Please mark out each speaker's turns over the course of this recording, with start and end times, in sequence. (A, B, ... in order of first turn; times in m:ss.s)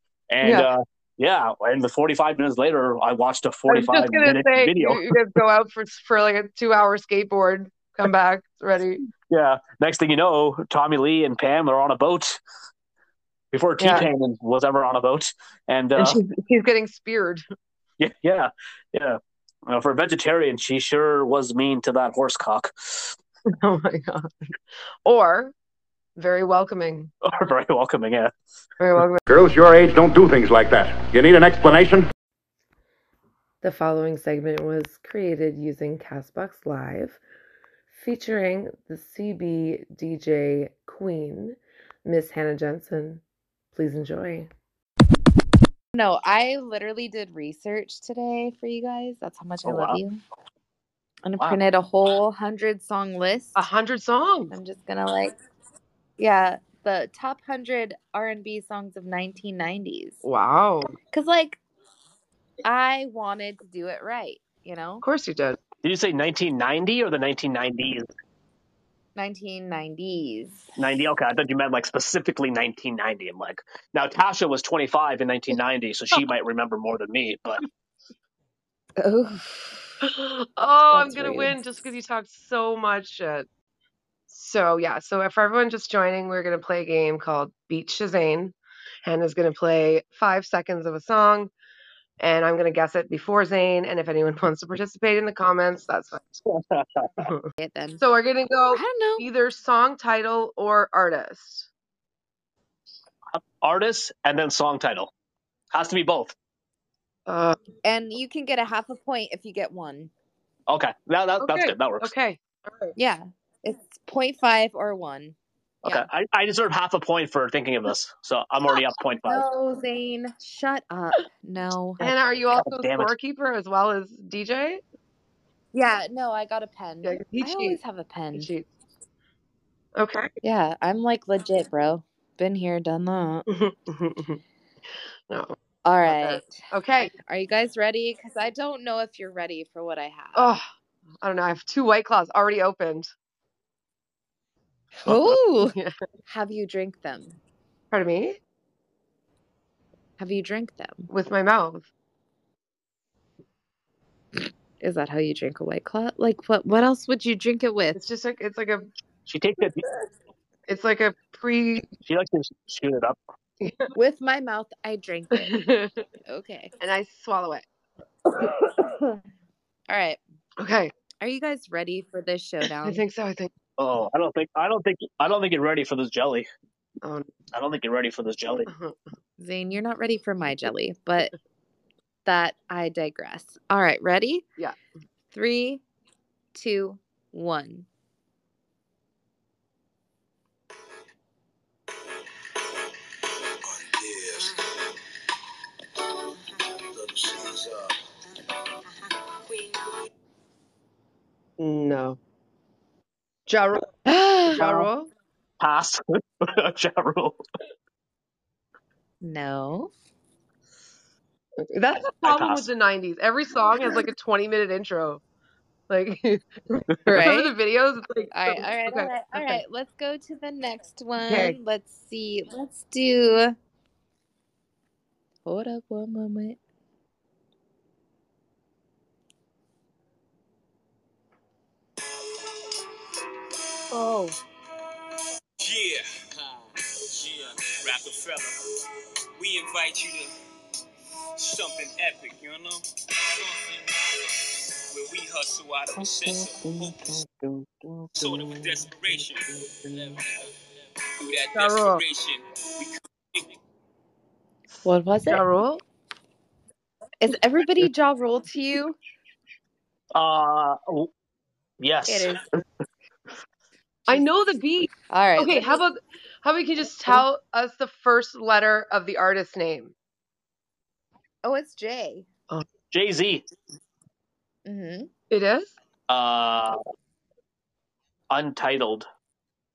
0:00.3-0:05.1 A
0:00.4-0:00.7 B
0:03.7-0:09.0 B
0:09.3-0:12.4 A
0:13.5-0:16.2 A
0:13.8-0:14.1 B
0:16.0-0:17.4 B
0:18.0-0:23.2 A
0:23.6-0:24.3 B
0:25.0-0:25.5 B
0:26.2-0:27.1 B
0:27.2-0:28.3 A
0:28.8-0:29.2 B
0:29.3-0:32.1 C
0:33.6-0:37.2 B
0:37.9-0:43.2 B
0:43.7-0:44.5 B
0:45.9-0:50.2 D
0:49.6-0:50.0 A
0:51.2-0:53.6 D
0:53.6-0:54.5 B
0:54.5-0:55.3 D
0:56.2-1:00.2 D
1:00.2-1:00.9 B
1:01.1-1:01.6 D
1:02.6-1:05.0 D
1:05.0-1:05.6 B
1:05.8-1:08.1 A
1:09.2-1:10.6 D
1:10.8-1:17.6 A
1:19.0-1:19.9 D
1:20.0-1:23.5 B
1:20.9-1:21.5 D
1:24.3-1:31.5 B
1:32.2-1:36.2 B
1:36.4-1:37.3 A
1:37.2-1:37.4 B
1:37.6-1:38.0 D
1:38.0-1:41.7 B
1:38.7-1:39.3 D
1:43.3-1:45.1 A
1:45.7-1:46.3 A
1:47.3-1:47.6 B
1:47.8-1:50.1 D
1:50.7-1:52.1 A
1:51.4-1:52.9 B
1:53.0-1:56.0 D
1:55.8-1:59.4 A
1:59.3-2:02.0 D
2:02.0-2:04.8 B
2:02.0-2:03.1 A
2:05.7-2:08.5 D
2:07.0-2:07.8 B
2:08.3-2:08.7 B
2:10.0-2:10.3 B
2:10.4-2:13.5 D
2:13.5-2:14.4 B
2:15.3-2:17.1 B
2:15.8-2:16.6 D
2:17.1-2:20.5 D
2:20.4-2:20.6 B
2:21.2-2:23.1 B
2:25.0-2:27.4 D
2:25.1-2:25.4 A
2:25.6-2:25.9 B
2:27.9-2:28.4 B
2:30.2-2:31.1 D
2:31.1-2:31.9 B
2:34.8-2:38.0 D
2:37.9-2:38.9 B
2:39.3-2:39.8 A
2:40.7-2:41.8 B
2:42.0-2:43.2 A
2:43.6-2:43.9 B
2:43.9-2:45.6 D
2:45.3-2:46.0 B
2:46.3-2:46.7 D
2:46.8-2:47.6 B
2:48.7-2:49.2 D
2:49.9-2:50.2 D
2:50.6-2:50.9 B
2:51.2-2:53.0 D
2:52.8-2:53.5 B
2:53.8-2:56.5 A
2:57.0-2:57.3 B
2:57.5-2:58.7 A
2:58.7-2:59.0 B
2:59.4-3:01.3 D
3:02.2-3:04.4 D
3:05.3-3:05.8 D
3:06.5-3:07.9 D
3:13.6-3:14.5 E
3:16.9-3:17.9 E
3:21.6-3:22.2 B
3:23.5-3:23.9 B
3:24.0-3:24.9 D
3:24.5-3:25.1 B
3:25.6-3:27.4 A
3:29.2-3:29.9 D
3:31.6-3:35.2 B
3:32.2-3:32.7 A
3:35.9-3:39.6 B
3:37.1-3:37.5 D
3:38.3-3:43.6 D
3:41.2-3:41.6 B
3:45.4-3:46.6 D
3:53.9-3:54.4 B
3:55.6-3:58.6 E
3:59.4-4:00.3 E
4:01.4-4:07.2 E
4:05.9-4:10.0 A
4:08.2-4:13.4 E
4:11.5-4:12.0 B
4:14.8-4:15.4 D
4:15.3-4:15.8 B
4:17.2-4:19.0 D
4:20.1-4:21.1 A
4:21.8-4:22.4 A
4:22.1-4:22.4 D
4:24.1-4:29.9 B
4:25.1-4:25.8 D
4:31.4-4:32.3 D
4:32.9-4:33.4 A
4:34.6-4:35.1 D
4:35.3-4:35.7 B
4:36.1-4:36.8 A
4:38.3-4:39.0 A